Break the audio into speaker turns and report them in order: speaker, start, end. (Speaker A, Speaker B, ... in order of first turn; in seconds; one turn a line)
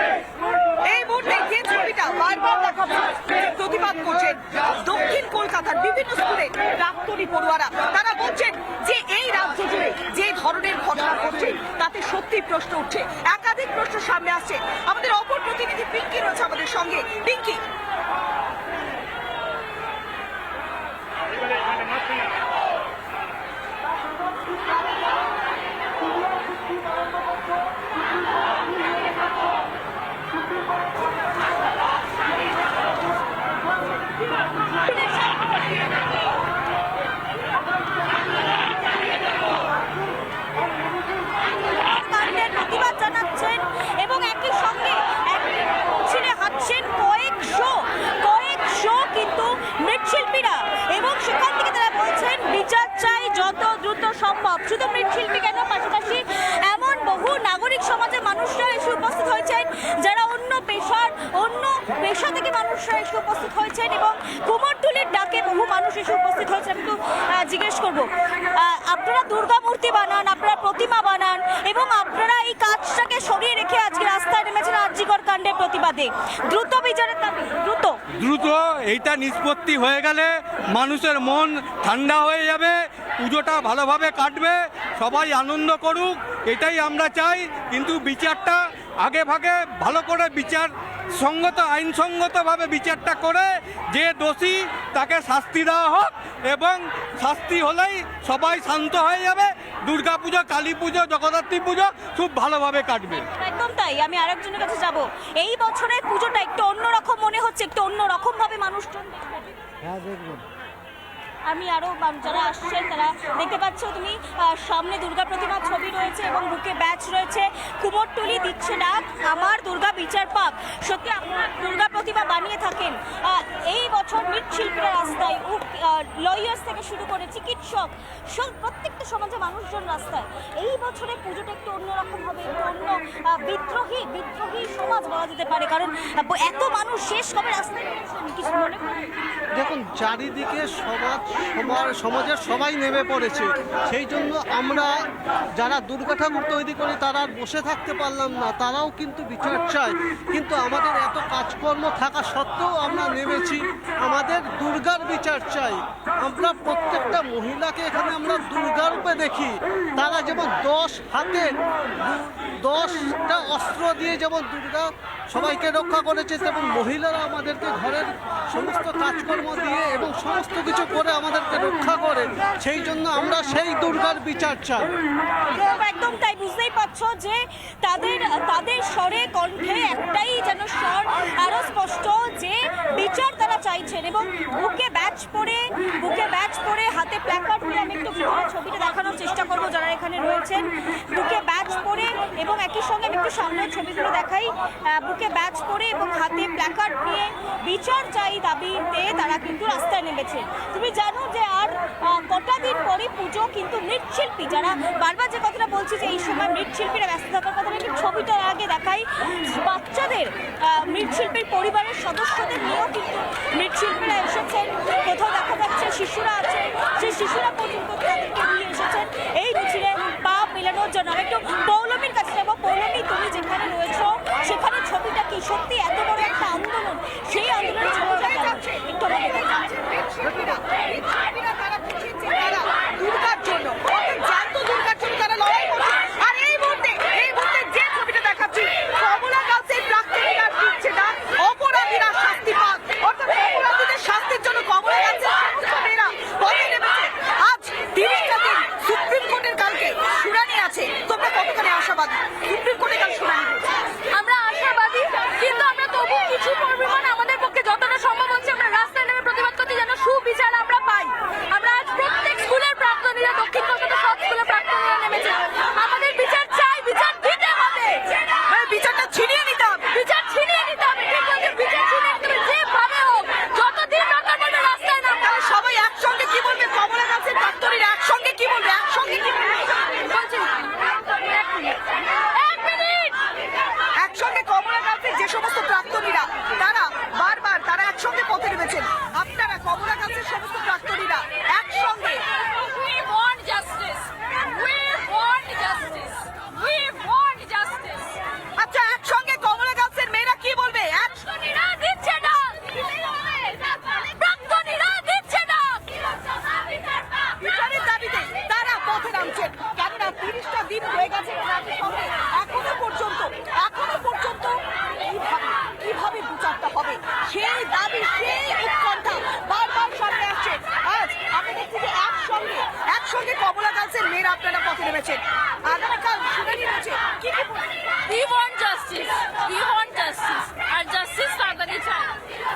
Speaker A: 0.9-17.6
Speaker B: 34.8-35.5
Speaker B: 41.7-78.0
Speaker C: 78.2-103.2
Speaker B: 103.2-109.5
Speaker B: 111.5-139.1
Speaker D: 139.6-144.9
Speaker D: 145.6-161.5
Speaker D: 162.0-174.9
Speaker B: 175.5-229.8
Speaker A: 229.8-253.7
Speaker E: 254.3-256.6
Speaker E: 257.2-258.3
Speaker E: 262.6-263.8
Speaker E: 264.5-265.6
Speaker B: 267.7-267.9
Speaker A: 268.5-269.9
Speaker B: 270.2-271.7
Speaker B: 272.8-274.4
Speaker E: 273.9-274.9
Speaker A: 275.2-279.9
Speaker E: 281.3-281.7
Speaker E: 282.5-283.2
Speaker A: 284.0-292.2
Speaker E: 292.6-298.2
Speaker A: 298.6-301.1
Speaker E: 301.4-302.6
Speaker E: 304.1-305.9
Speaker A: 307.4-327.6
Speaker E: 328.1-332.1